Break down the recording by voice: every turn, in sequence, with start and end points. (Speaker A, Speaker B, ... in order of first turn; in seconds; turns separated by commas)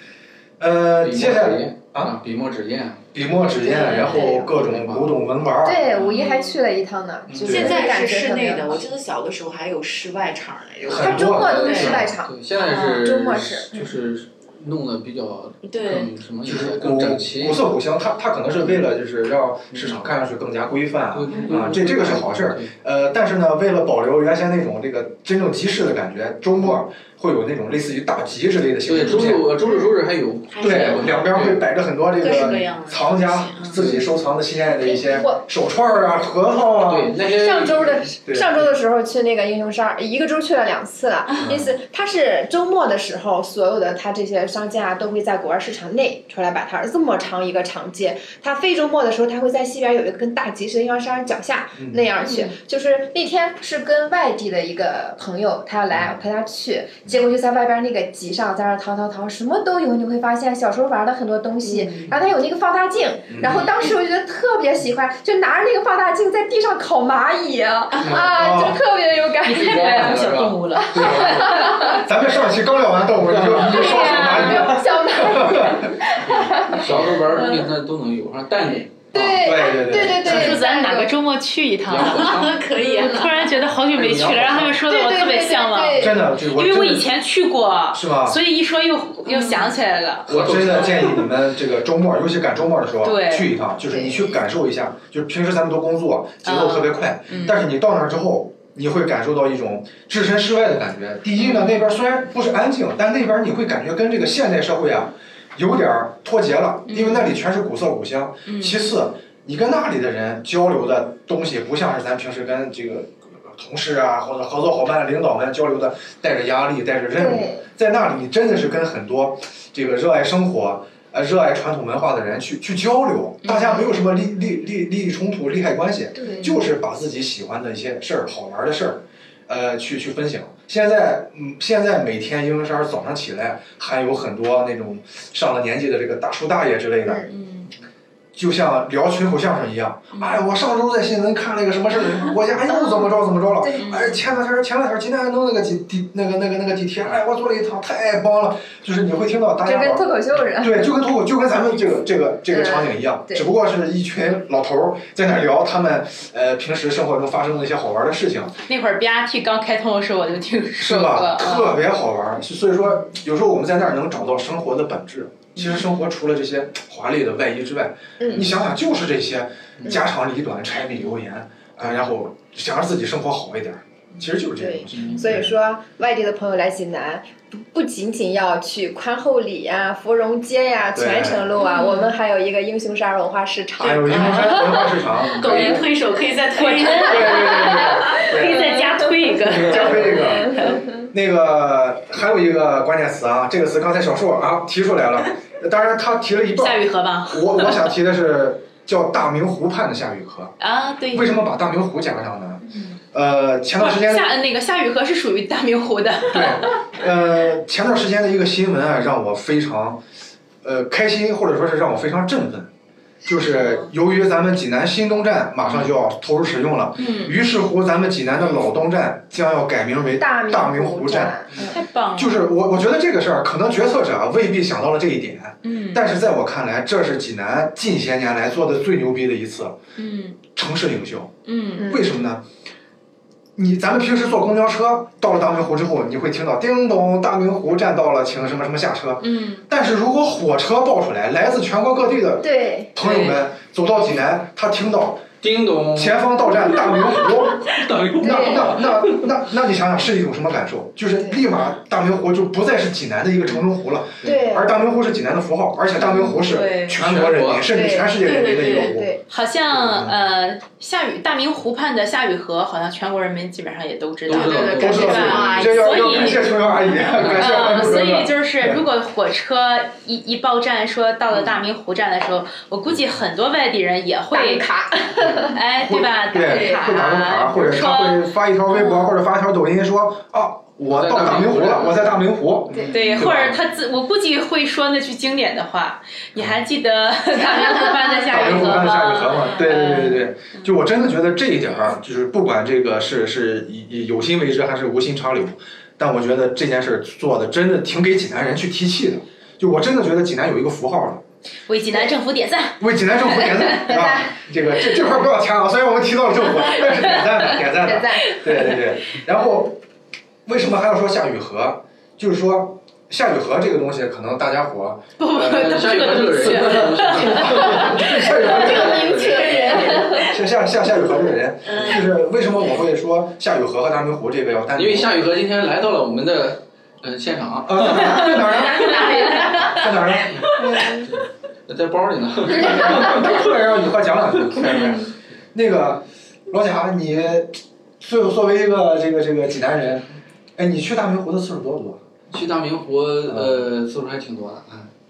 Speaker A: 0.6-2.2, Speaker B: 1.0-3.1, Speaker A: 3.1-5.8, Speaker C: 3.6-4.5, Speaker B: 3.7-5.2, Speaker C: 5.6-8.8, Speaker B: 5.9-6.3, Speaker D: 6.1-6.6, Speaker B: 7.3-7.8, Speaker A: 7.5-7.7, Speaker D: 7.5-12.0, Speaker A: 10.8-12.1, Speaker C: 10.9-13.9, Speaker B: 11.3-17.7, Speaker D: 12.7-13.0, Speaker D: 15.6-16.1, Speaker A: 16.4-29.5, Speaker B: 18.6-18.9, Speaker B: 19.7-20.1, Speaker B: 21.1-22.7, Speaker D: 21.3-21.6, Speaker B: 28.9-31.7, Speaker D: 29.6-29.9, Speaker D: 30.5-31.3, Speaker A: 30.6-37.1, Speaker D: 32.2-33.9, Speaker B: 33.8-34.1, Speaker C: 34.7-35.4, Speaker B: 36.9-38.1, Speaker C: 37.2-70.2, Speaker A: 38.2-38.6, Speaker A: 41.4-41.8, Speaker A: 51.8-52.1, Speaker A: 55.9-56.2, Speaker E: 61.6-62.1, Speaker A: 63.3-63.7, Speaker B: 68.0-68.3, Speaker A: 68.2-68.8, Speaker E: 69.4-72.0, Speaker B: 69.5-71.7, Speaker A: 70.2-75.9, Speaker C: 70.8-72.0, Speaker B: 73.2-73.8, Speaker C: 73.6-77.7, Speaker E: 73.6-74.9, Speaker B: 76.2-79.0, Speaker A: 79.1-80.6, Speaker C: 79.1-81.2, Speaker E: 80.2-91.0, Speaker B: 81.9-82.5, Speaker D: 82.0-83.7, Speaker B: 83.9-84.8, Speaker C: 84.8-86.2, Speaker A: 86.0-87.1, Speaker A: 87.9-88.4, Speaker D: 89.3-89.7, Speaker A: 90.3-137.2, Speaker B: 90.3-91.2, Speaker E: 93.0-93.5, Speaker C: 93.9-94.3, Speaker E: 96.4-97.6, Speaker E: 101.4-101.8, Speaker E: 106.9-107.4, Speaker E: 108.5-108.8, Speaker C: 117.2-117.6, Speaker E: 123.5-123.9, Speaker C: 126.2-126.6, Speaker E: 137.3-137.7, Speaker A: 138.3-158.6, Speaker E: 140.1-140.4, Speaker C: 142.6-143.8, Speaker E: 143.8-144.2, Speaker C: 149.6-150.9, Speaker C: 152.5-153.4, Speaker E: 158.7-161.8, Speaker A: 160.8-175.6, Speaker E: 165.6-165.8, Speaker C: 168.2-168.5, Speaker C: 174.6-184.8, Speaker B: 174.9-175.2, Speaker A: 180.9-181.6, Speaker E: 181.8-182.0, Speaker A: 183.8-185.8, Speaker D: 183.9-187.8, Speaker E: 186.6-190.8, Speaker A: 187.0-188.8, Speaker C: 188.7-189.1, Speaker A: 189.4-200.5, Speaker C: 190.5-190.8, Speaker E: 196.6-197.9, Speaker E: 200.6-201.4, Speaker A: 201.1-204.3, Speaker E: 203.8-206.8, Speaker A: 206.3-210.0, Speaker A: 210.6-212.7, Speaker A: 213.2-221.4, Speaker E: 217.0-217.4, Speaker C: 220.2-221.8, Speaker E: 221.6-222.4, Speaker A: 222.1-229.8, Speaker E: 225.6-226.1, Speaker E: 230.0-230.4, Speaker A: 230.4-232.4, Speaker E: 231.5-231.9, Speaker C: 231.8-232.1, Speaker A: 233.6-245.3, Speaker E: 239.2-239.6, Speaker C: 242.4-242.9, Speaker B: 243.0-243.4, Speaker B: 245.4-249.3, Speaker A: 245.9-259.2, Speaker C: 248.2-248.8, Speaker C: 254.2-254.8, Speaker B: 256.0-257.7, Speaker D: 256.4-257.0, Speaker C: 257.7-259.2, Speaker D: 258.2-259.0, Speaker E: 259.3-279.1, Speaker A: 259.8-260.2, Speaker B: 264.3-265.6, Speaker D: 264.3-266.4, Speaker A: 264.8-268.8, Speaker B: 267.1-267.9, Speaker C: 274.3-275.5, Speaker A: 275.8-283.6, Speaker D: 276.4-276.9, Speaker B: 280.9-283.6, Speaker E: 282.9-290.7, Speaker A: 286.4-286.6, Speaker A: 288.3-301.2, Speaker E: 301.7-303.9, Speaker A: 302.8-309.8, Speaker C: 303.9-304.4, Speaker C: 307.8-308.4, Speaker A: 310.5-319.1, Speaker E: 315.2-318.1, Speaker B: 315.4-319.8, Speaker D: 318.4-320.3, Speaker C: 319.7-320.2, Speaker A: 320.1-325.1, Speaker D: 321.7-322.1, Speaker B: 324.8-328.2, Speaker A: 327.6-330.7, Speaker D: 328.2-329.8, Speaker B: 330.3-333.5, Speaker A: 332.5-342.0, Speaker B: 342.3-344.9, Speaker A: 343.3-343.7